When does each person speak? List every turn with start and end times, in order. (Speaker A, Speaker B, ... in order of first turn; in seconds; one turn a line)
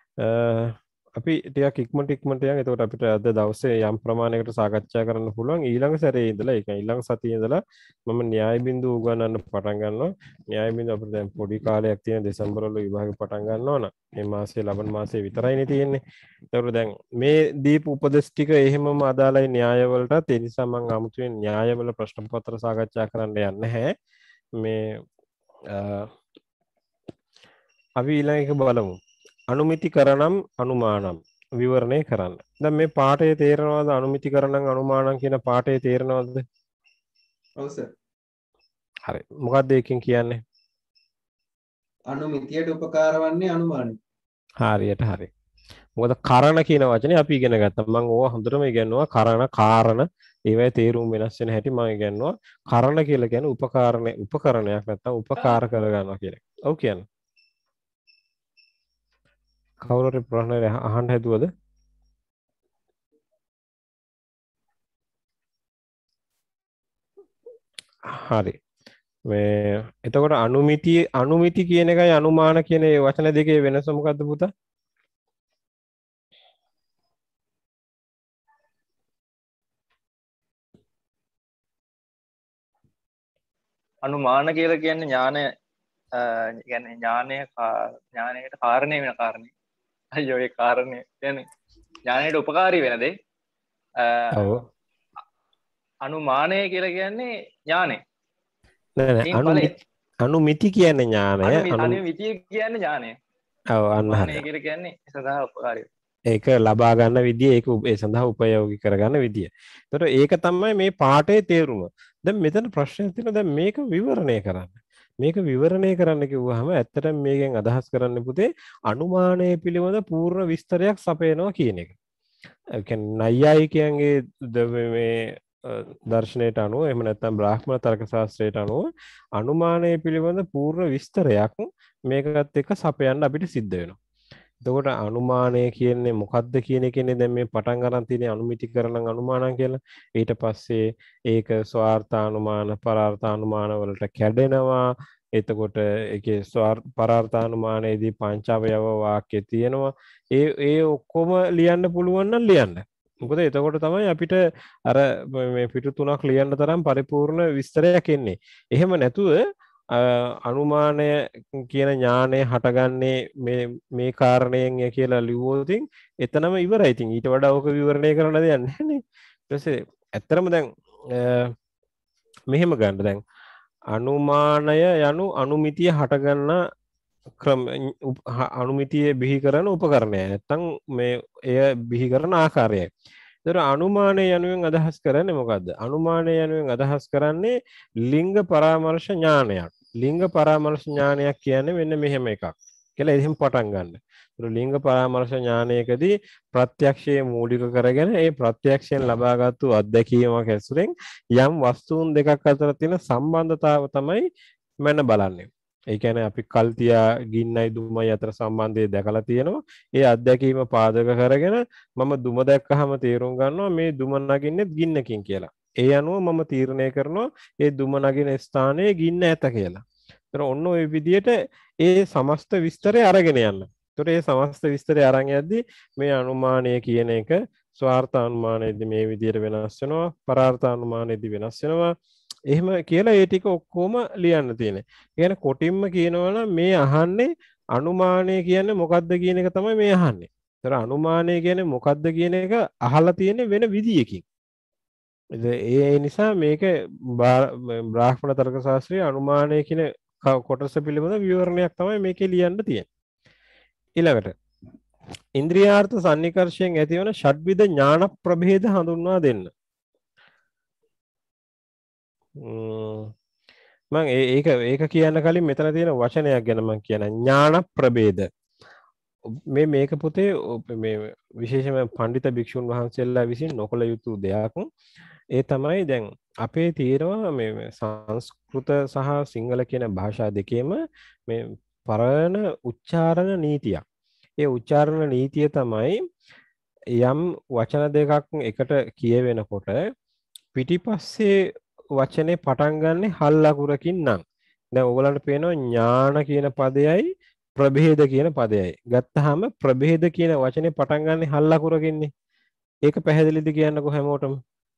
Speaker A: 0.2-16.0
Speaker A: 16.5-23.9
Speaker A: 24.6-25.0
Speaker A: 25.7-26.1
Speaker A: 28.0-29.0
Speaker A: 29.5-36.4
Speaker B: 37.6-37.9
Speaker A: 39.0-40.4
Speaker B: 42.1-44.0
Speaker A: 44.6-45.3
Speaker A: 46.0-57.0
Speaker A: 59.8-61.5
Speaker A: 68.1-68.5
Speaker A: 69.3-74.5
Speaker C: 84.0-85.4
Speaker C: 86.2-89.5
Speaker C: 90.1-91.5
Speaker C: 92.0-93.1
Speaker C: 94.0-94.5
Speaker A: 94.3-94.6
Speaker C: 96.0-98.0
Speaker A: 99.0-99.7
Speaker C: 99.2-99.7
Speaker A: 100.2-102.0
Speaker C: 101.4-103.1
Speaker A: 103.7-104.4
Speaker C: 104.1-105.9
Speaker A: 106.3-121.9
Speaker A: 122.8-128.8
Speaker A: 129.4-134.0
Speaker A: 134.6-159.4
Speaker A: 159.9-171.5
Speaker A: 172.5-173.2
Speaker A: 173.9-176.6
Speaker A: 177.4-182.9
Speaker A: 183.4-187.5
Speaker A: 188.0-204.2
Speaker A: 204.8-231.9
Speaker A: 232.5-244.2
Speaker A: 245.3-252.8
Speaker A: 254.0-254.3
Speaker A: 255.4-259.5
Speaker A: 262.4-263.1
Speaker A: 263.9-268.2
Speaker A: 269.5-274.6
Speaker A: 275.3-283.8
Speaker A: 284.4-286.0
Speaker A: 287.0-289.8
Speaker A: 290.5-291.3
Speaker A: 292.0-294.2
Speaker A: 294.7-297.1
Speaker A: 297.6-302.1
Speaker A: 302.9-304.4